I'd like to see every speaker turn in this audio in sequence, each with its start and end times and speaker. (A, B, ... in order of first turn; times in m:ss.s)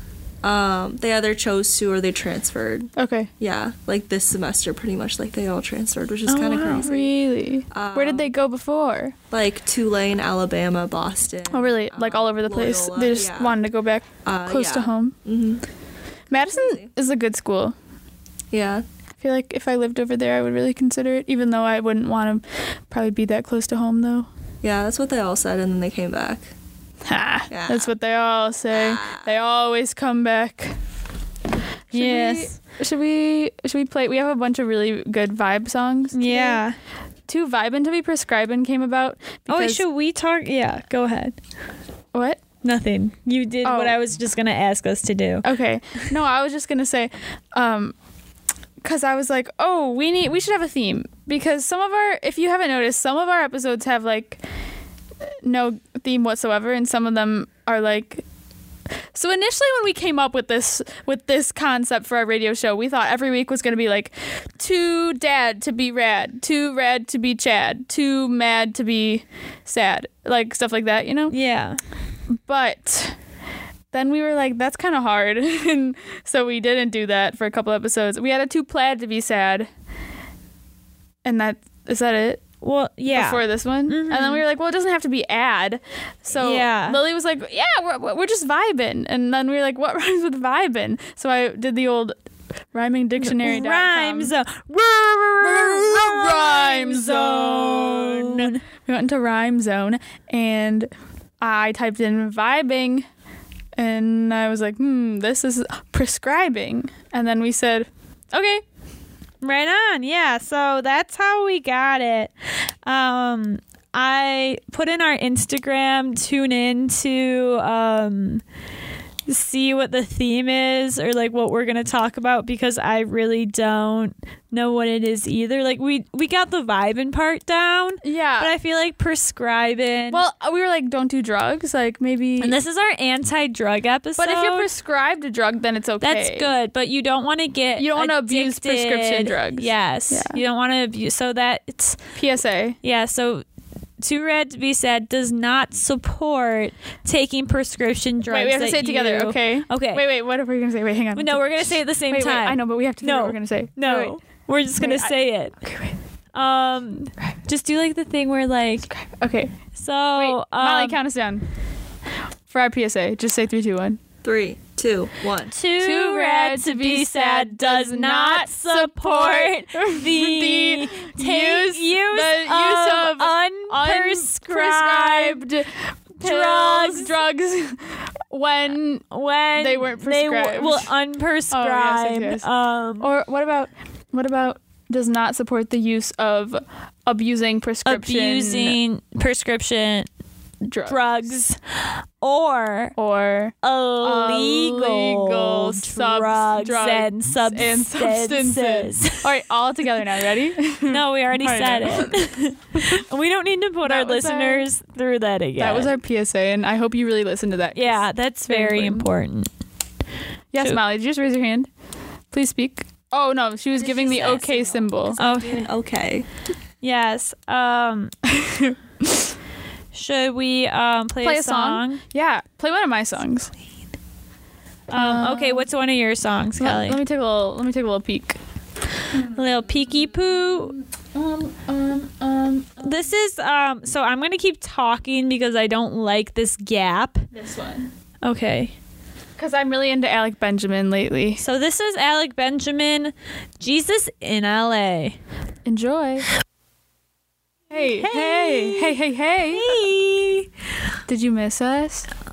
0:00.4-0:07.1 A
0:03.0-0:03.3 B
0:06.3-0:06.8 C
0:06.8-0:09.2 B
0:07.7-0:08.3 A
0:09.3-0:13.6 A
0:11.5-0:15.2 B
0:14.2-0:15.6 A
0:16.3-0:17.7 B
0:16.5-0:16.9 A
0:18.5-0:18.8 A
0:19.2-0:24.3 B
0:24.6-0:26.5 A
0:27.0-0:30.7 B
0:27.5-0:27.9 A
0:28.7-0:29.3 A
0:31.9-0:36.6 B
0:31.9-0:32.5 C
0:36.1-0:36.8 C
0:37.3-0:39.8 B
0:39.5-0:41.3 C
0:42.1-0:42.4 B
0:42.6-0:45.4 C
0:43.6-0:44.0 B
0:45.4-0:47.9 B
0:48.8-0:54.4 B
0:55.4-0:58.2 B
0:59.1-1:11.3 B
1:11.3-1:11.8 C
1:12.4-1:13.2 B
1:13.9-1:19.7 B
1:21.2-1:22.4 B
1:22.6-1:24.4 C
1:23.1-1:32.1 B
1:26.4-1:27.0 C
1:32.7-1:34.3 B
1:33.2-1:38.6 C
1:35.4-1:40.9 B
1:41.4-1:43.0 B
1:43.8-1:48.6 B
1:49.4-1:52.3 C
1:52.8-1:58.4 C
1:59.3-2:10.2 C
2:08.0-2:08.5 B
2:10.1-2:12.6 B
2:12.4-2:14.7 C
2:14.2-2:16.5 B
2:16.0-2:22.0 C
2:17.8-2:20.4 B
2:22.2-2:22.8 B
2:22.8-2:23.4 C
2:24.0-2:30.0 C
2:28.3-2:34.2 B
2:31.2-2:35.5 C
2:34.8-2:35.9 B
2:36.3-2:38.9 C
2:38.9-2:39.5 B
2:39.8-2:41.0 C
2:40.2-2:41.4 B
2:42.5-2:44.0 B
2:44.2-2:45.6 A
2:45.5-2:55.4 C
2:45.8-3:00.9 B
2:56.2-2:57.1 C
2:59.1-3:03.1 C
3:01.5-3:02.5 B
3:03.0-3:08.8 B
3:07.8-3:10.1 C
3:10.6-3:11.0 B
3:10.8-3:13.0 C
3:13.0-3:22.2 B
3:13.6-3:19.2 C
3:20.9-3:25.9 C
3:23.8-3:24.7 B
3:25.6-3:29.1 B
3:27.7-3:29.5 C
3:30.5-3:31.7 B
3:32.3-3:35.2 B
3:33.8-3:36.2 A
3:35.2-3:35.6 C
3:36.8-3:38.1 C
3:38.3-3:39.2 B
3:39.9-3:42.0 C
3:41.2-3:43.5 B
3:44.9-3:47.0 C
3:44.9-3:45.7 B
3:46.6-3:48.4 B
3:49.1-3:53.1 B
3:49.3-3:50.8 C
3:52.8-3:57.2 C
3:57.3-3:57.9 B
3:58.2-3:58.7 C
3:59.4-4:01.4 B
4:01.4-4:05.2 C
4:05.6-4:06.3 B
4:07.7-4:09.8 B
4:08.0-4:09.0 C
4:09.5-4:10.5 C
4:11.1-4:12.1 B